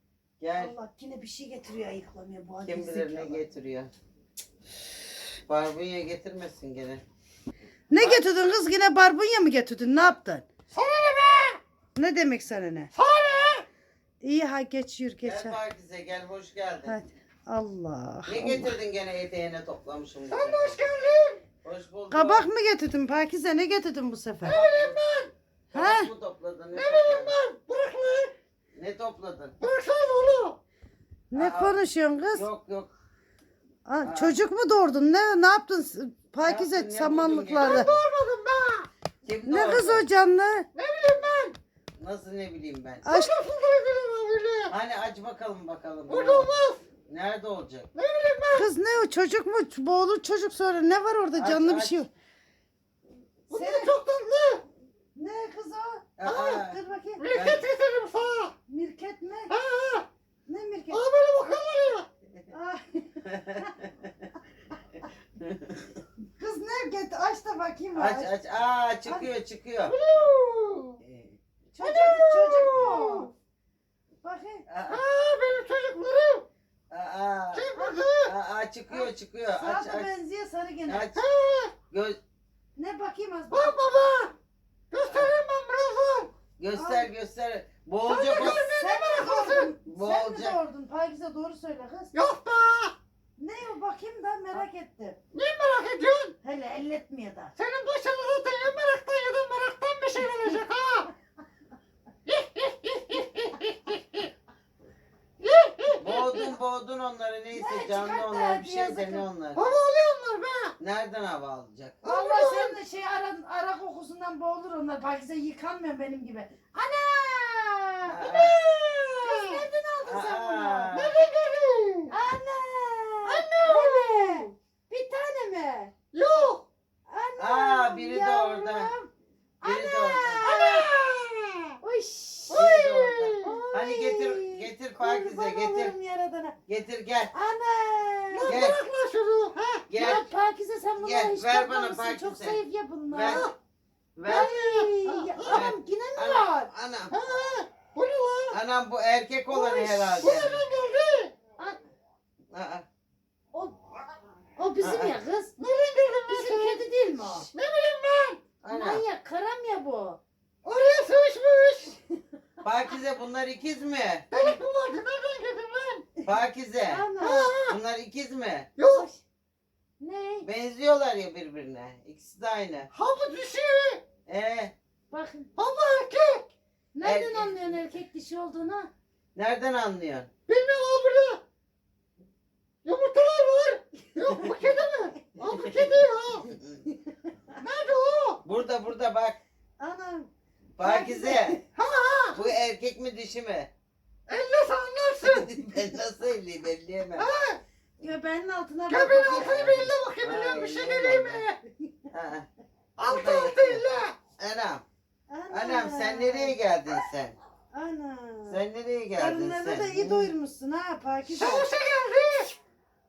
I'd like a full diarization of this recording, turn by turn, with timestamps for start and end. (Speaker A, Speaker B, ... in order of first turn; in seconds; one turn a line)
Speaker A: 0.4-0.7
Speaker B: 0.6-3.4
Speaker A: 2.6-3.9
Speaker A: 5.5-7.0
Speaker B: 7.9-10.4
Speaker C: 10.7-11.6
Speaker B: 11.9-12.9
Speaker C: 12.9-13.7
Speaker B: 14.2-15.6
Speaker A: 15.2-17.0
Speaker B: 16.9-18.7
Speaker A: 18.3-20.8
Speaker C: 20.3-21.4
Speaker A: 21.6-22.5
Speaker B: 22.1-24.7
Speaker C: 24.4-25.3
Speaker A: 24.5-25.0
Speaker B: 25.7-26.1
Speaker A: 25.7-27.4
Speaker C: 26.7-28.3
Speaker A: 28.8-29.6
Speaker C: 29.6-30.6
Speaker B: 31.3-32.5
Speaker A: 31.3-31.8
Speaker A: 32.3-32.9
Speaker B: 33.9-37.9
Speaker A: 34.0-34.4
Speaker A: 36.4-38.0
Speaker C: 37.6-38.9
Speaker A: 39.2-40.1
Speaker B: 39.5-40.7
Speaker C: 40.8-41.6
Speaker A: 42.0-43.0
Speaker B: 43.0-43.3
Speaker C: 43.1-44.7
Speaker A: 44.7-47.9
Speaker C: 46.1-46.8
Speaker C: 48.0-48.7
Speaker B: 48.5-52.1
Speaker A: 51.4-52.0
Speaker C: 53.5-54.6
Speaker B: 53.5-53.9
Speaker B: 55.1-57.2
Speaker A: 56.2-56.8
Speaker C: 56.2-56.6
Speaker C: 57.2-58.5
Speaker A: 57.3-57.6
Speaker B: 58.7-59.5
Speaker C: 59.5-60.1
Speaker B: 60.5-61.0
Speaker C: 60.9-62.1
Speaker B: 62.5-63.8
Speaker A: 65.4-65.8
Speaker B: 66.4-68.3
Speaker A: 68.0-70.0
Speaker C: 69.9-71.0
Speaker A: 71.0-71.4
Speaker B: 71.7-73.3
Speaker C: 71.8-73.3
Speaker B: 74.2-74.7
Speaker A: 74.7-75.0
Speaker C: 74.9-76.5
Speaker A: 76.9-80.1
Speaker C: 77.5-78.3
Speaker B: 77.8-78.0
Speaker B: 78.9-81.1
Speaker A: 80.9-81.2
Speaker C: 81.1-81.7
Speaker A: 81.9-82.2
Speaker B: 82.8-83.8
Speaker C: 83.5-84.3
Speaker C: 84.9-86.3
Speaker A: 85.1-85.4
Speaker A: 86.6-88.7
Speaker B: 86.7-87.1
Speaker C: 88.0-89.7
Speaker B: 88.3-92.1
Speaker A: 89.8-90.6
Speaker C: 92.1-93.0
Speaker B: 93.4-95.2
Speaker C: 95.3-96.3
Speaker B: 96.4-97.5
Speaker C: 97.6-101.1
Speaker C: 102.3-104.3
Speaker C: 105.4-106.5
Speaker A: 106.0-109.6
Speaker B: 107.5-109.2
Speaker C: 109.5-110.8
Speaker A: 110.8-112.0
Speaker C: 112.0-112.8
Speaker B: 112.0-121.0
Speaker A: 118.0-118.6
Speaker C: 119.2-119.6
Speaker A: 120.0-121.2
Speaker C: 120.9-122.1
Speaker B: 122.1-125.9
Speaker C: 123.3-124.5
Speaker C: 126.1-126.7
Speaker B: 127.1-129.1
Speaker A: 127.4-128.9
Speaker B: 129.6-130.9
Speaker A: 129.6-130.6
Speaker C: 130.4-131.7
Speaker B: 131.8-132.7
Speaker C: 132.5-133.6
Speaker A: 132.5-135.9
Speaker B: 133.4-136.6
Speaker A: 136.7-137.3
Speaker B: 137.3-138.6
Speaker C: 138.3-139.8
Speaker A: 138.5-138.8
Speaker A: 139.9-140.3
Speaker B: 140.0-143.5
Speaker A: 141.0-143.5
Speaker C: 143.2-143.6
Speaker A: 144.2-144.6
Speaker B: 144.3-146.7
Speaker C: 144.4-145.6
Speaker A: 145.5-147.2
Speaker C: 147.1-148.6
Speaker A: 148.5-150.7
Speaker B: 149.5-150.2
Speaker C: 149.8-151.3
Speaker A: 152.5-152.9
Speaker B: 154.6-155.5
Speaker A: 154.8-155.2
Speaker C: 155.6-156.8
Speaker B: 156.3-157.5
Speaker C: 157.5-158.4
Speaker A: 158.6-159.0
Speaker B: 158.7-160.2
Speaker C: 160.7-162.0
Speaker A: 162.6-164.3
Speaker C: 164.3-166.1
Speaker A: 166.2-168.7
Speaker B: 166.9-167.5
Speaker C: 167.2-167.8
Speaker C: 168.8-169.1
Speaker B: 168.9-169.2
Speaker B: 170.0-170.5
Speaker A: 170.4-172.9
Speaker C: 172.9-174.0
Speaker A: 174.3-174.7
Speaker B: 175.1-175.5
Speaker C: 175.6-176.5
Speaker B: 176.9-178.9
Speaker A: 177.0-177.8
Speaker A: 179.3-180.3
Speaker C: 180.5-181.4
Speaker C: 182.8-186.5
Speaker A: 186.5-186.8
Speaker C: 187.6-188.4
Speaker A: 188.4-189.4
Speaker B: 189.8-190.3
Speaker A: 190.8-191.6
Speaker B: 190.8-191.6
Speaker C: 191.8-192.4
Speaker A: 192.3-193.7
Speaker C: 194.3-195.5
Speaker A: 195.2-197.3
Speaker C: 197.2-197.6
Speaker B: 198.0-199.6
Speaker C: 198.9-201.6
Speaker A: 199.4-201.5
Speaker A: 202.1-202.5
Speaker C: 203.0-204.2
Speaker A: 203.1-204.8
Speaker B: 205.3-206.6
Speaker A: 205.5-207.4
Speaker B: 207.7-208.6
Speaker A: 208.5-210.3
Speaker B: 209.2-211.7
Speaker C: 211.3-212.6